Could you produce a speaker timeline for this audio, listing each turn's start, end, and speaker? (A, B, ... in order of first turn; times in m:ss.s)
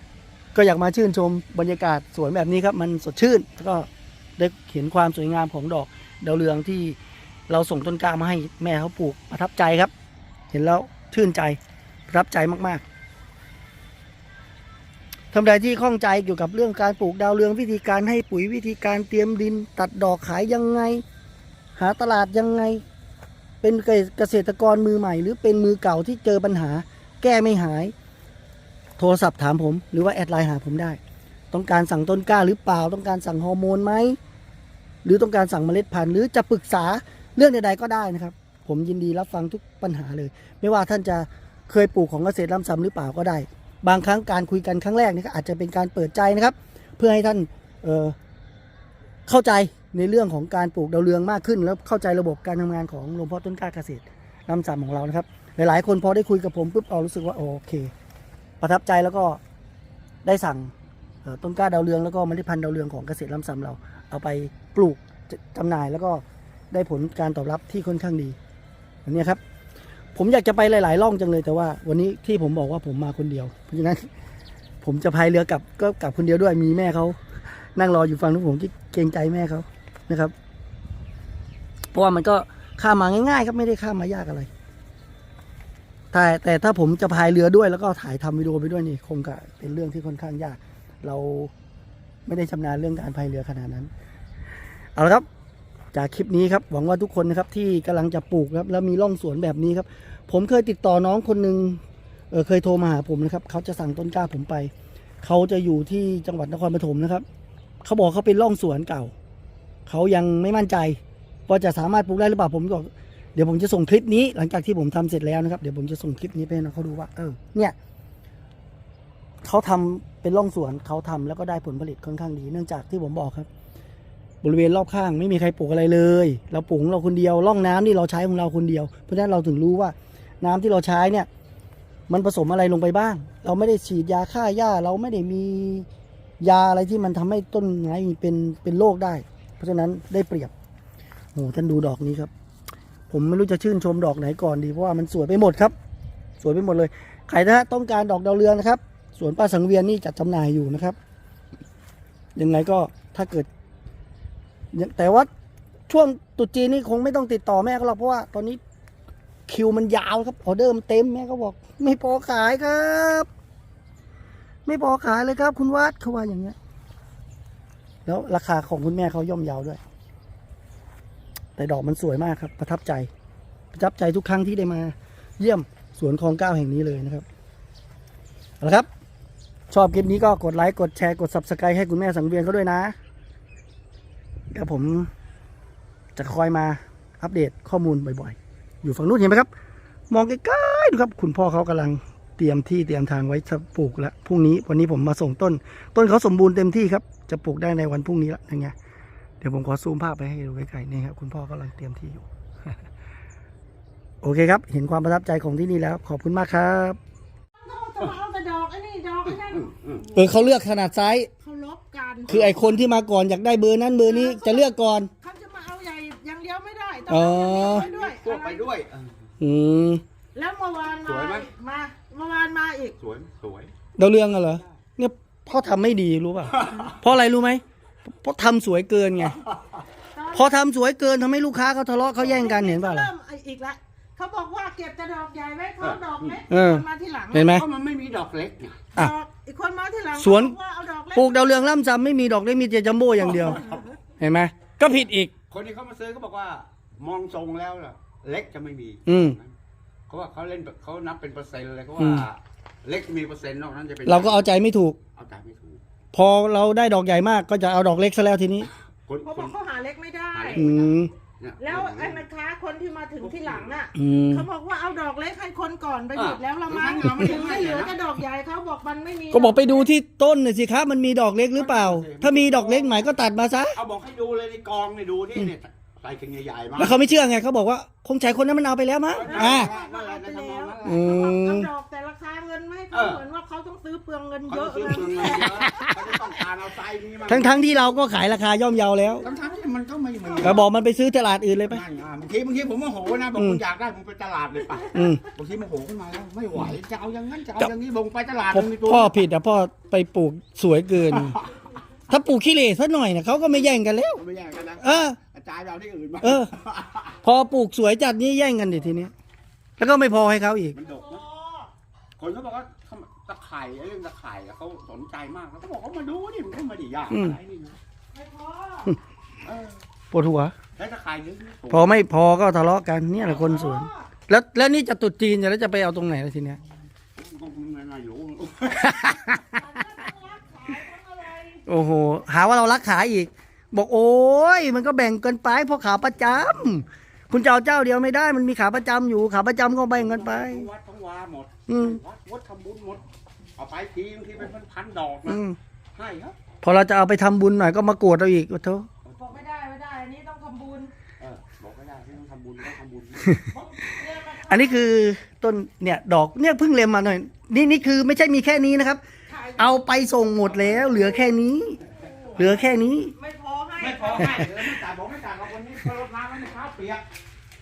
0:00.5-0:07.0 A
0:07.5-0:09.9 A
0:10.5-0:12.8 A
0:15.3-0:21.0 A
0:21.8-0:22.8 A
0:23.6-0:27.9 A
0:29.0-0:31.0 A
0:31.5-0:34.2 A
0:35.0-0:48.2 A
0:49.3-0:57.9 A
0:58.6-0:59.4 A
1:00.2-1:00.7 A
1:01.2-1:08.4 A
1:09.0-1:09.4 A
1:10.1-1:14.1 A
1:14.8-1:17.2 A
1:17.7-1:20.3 A
1:21.9-1:24.5 A
1:26.1-1:31.5 A
1:32.2-1:33.9 A
1:35.0-1:35.2 A
1:35.9-1:47.2 A
1:47.8-1:49.1 A
1:49.8-1:57.8 A
1:59.4-2:03.5 A
2:04.4-2:11.3 A
2:12.1-2:15.9 A
2:16.4-2:20.5 A
2:21.3-2:22.3 A
2:23.1-2:25.7 A
2:26.4-2:31.0 A
2:32.4-2:33.5 A
2:34.7-2:35.3 A
2:35.9-2:38.6 A
2:39.5-2:43.3 A
2:44.6-2:46.6 A
2:48.0-2:49.8 A
2:51.6-2:53.1 A
2:53.7-2:57.2 A
2:58.6-2:58.9 A
2:59.7-3:02.9 A
3:04.5-3:05.1 A
3:06.2-3:09.5 A
3:10.1-3:18.7 A
3:19.4-3:22.2 A
3:24.2-3:27.0 A
3:27.6-3:30.3 B
3:29.4-3:30.1 C
3:30.1-3:31.3 A
3:31.4-3:32.4 B
3:32.3-3:32.9 C
3:32.3-3:35.1 A
3:34.0-3:34.7 B
3:35.2-3:38.6 B
3:37.1-3:37.9 A
3:37.7-3:39.3 C
3:39.4-3:40.0 A
3:40.3-3:43.0 B
3:41.0-3:41.5 C
3:43.0-3:43.7 C
3:44.0-3:49.4 A
3:46.5-3:46.8 C
3:50.1-3:50.6 B
3:50.3-3:53.1 A
3:52.2-3:52.4 C
3:52.4-3:57.5 B
3:55.8-3:56.4 C
3:56.5-3:57.6 A
3:57.5-3:58.9 C
3:58.9-4:01.7 B
4:00.2-4:00.6 A
4:01.1-4:05.3 A
4:03.4-4:03.8 C
4:03.5-4:03.8 B
4:05.5-4:09.5 C
4:09.0-4:09.4 A
4:10.1-4:14.5 C
4:12.0-4:12.2 A
4:14.0-4:15.0 A
4:15.1-4:15.8 C
4:16.1-4:18.7 A
4:19.1-4:19.6 C
4:19.2-4:20.8 B
4:20.3-4:20.8 C
4:20.5-4:21.1 A
4:21.4-4:22.3 C
4:21.6-4:29.9 B
4:23.2-4:23.8 C
4:23.9-4:24.5 A
4:26.1-4:27.9 C
4:29.3-4:33.8 A
4:31.5-4:33.1 C
4:33.7-4:37.1 C
4:36.8-4:39.7 A
4:39.1-4:41.2 C
4:39.2-4:45.6 B
4:40.8-4:41.7 A
4:42.9-4:43.2 C
4:44.5-4:47.6 C
4:45.6-4:46.0 A
4:47.3-4:49.2 A
4:49.2-4:50.6 C
4:50.4-4:51.8 A
4:50.4-4:50.7 B
4:51.7-4:59.2 C
4:54.9-4:55.2 A
4:58.5-5:01.4 A
5:02.1-5:04.2 A
5:04.2-5:07.2 C
5:04.8-5:05.2 A
5:06.2-5:06.5 A
5:07.2-5:09.1 A
5:09.8-5:10.8 A
5:10.7-5:11.2 C
5:10.8-5:11.7 B
5:12.2-5:17.8 C
5:17.1-5:17.4 A
5:18.1-5:18.9 B
5:19.4-5:19.8 C
5:20.1-5:20.5 A
5:20.8-5:22.0 C
5:21.7-5:26.6 A
5:23.2-5:23.6 C
5:23.5-5:24.0 B
5:27.2-5:29.3 C
5:29.0-5:29.4 A
5:29.4-5:31.7 B
5:31.6-5:40.6 A
5:39.9-5:43.0 C
5:41.7-5:42.0 A
5:43.6-5:45.4 C
5:45.3-5:45.6 A
5:45.9-5:46.4 C
5:46.6-5:48.9 A
5:49.0-5:49.4 C
5:49.2-5:50.9 B
5:51.2-5:53.5 C
5:53.4-5:54.9 B
5:54.4-5:59.0 A
5:59.3-5:59.8 B
5:59.6-6:01.8 A
6:02.1-6:04.4 B
6:02.3-6:03.1 A
6:03.8-6:07.0 C
6:04.1-6:04.5 A